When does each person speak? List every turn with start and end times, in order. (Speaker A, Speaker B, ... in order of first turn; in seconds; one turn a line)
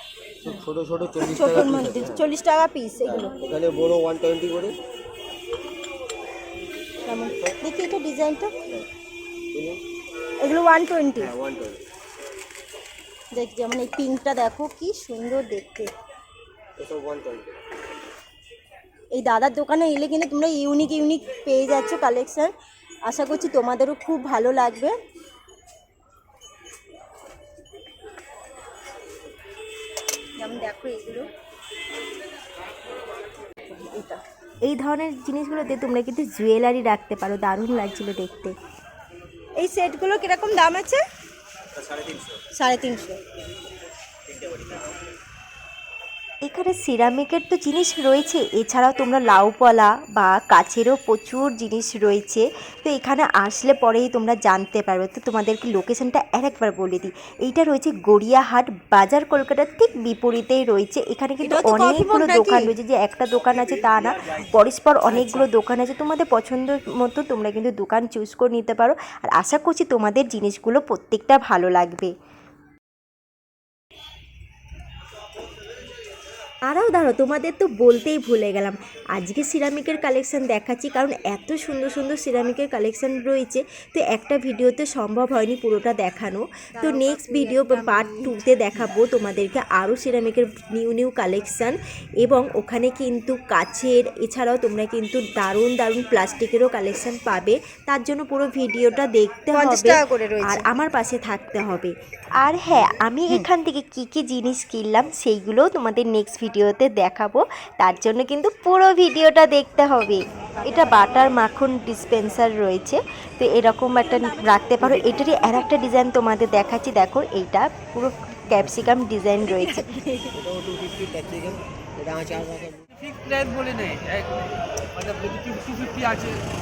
Speaker A: 0.5-2.3
Speaker B: 1.4-3.4
Speaker A: 3.0-4.8
Speaker B: 7.0-8.5
Speaker A: 9.5-9.8
Speaker B: 10.4-11.3
Speaker A: 11.2-11.8
Speaker B: 13.3-15.9
Speaker A: 16.8-17.6
Speaker B: 19.1-22.5
Speaker B: 23.1-24.9
Speaker B: 30.4-31.3
Speaker B: 33.7-34.2
Speaker C: 34.7-38.5
Speaker B: 39.6-41.0
Speaker A: 41.8-42.4
Speaker B: 42.5-43.2
Speaker A: 44.3-44.9
Speaker C: 46.4-72.1
Speaker B: 61.4-62.7
Speaker C: 76.7-119.8
Speaker B: 86.8-88.3
Speaker B: 99.5-100.7
Speaker B: 114.0-115.8
Speaker B: 119.4-120.4
Speaker A: 120.3-122.8
Speaker D: 122.9-126.4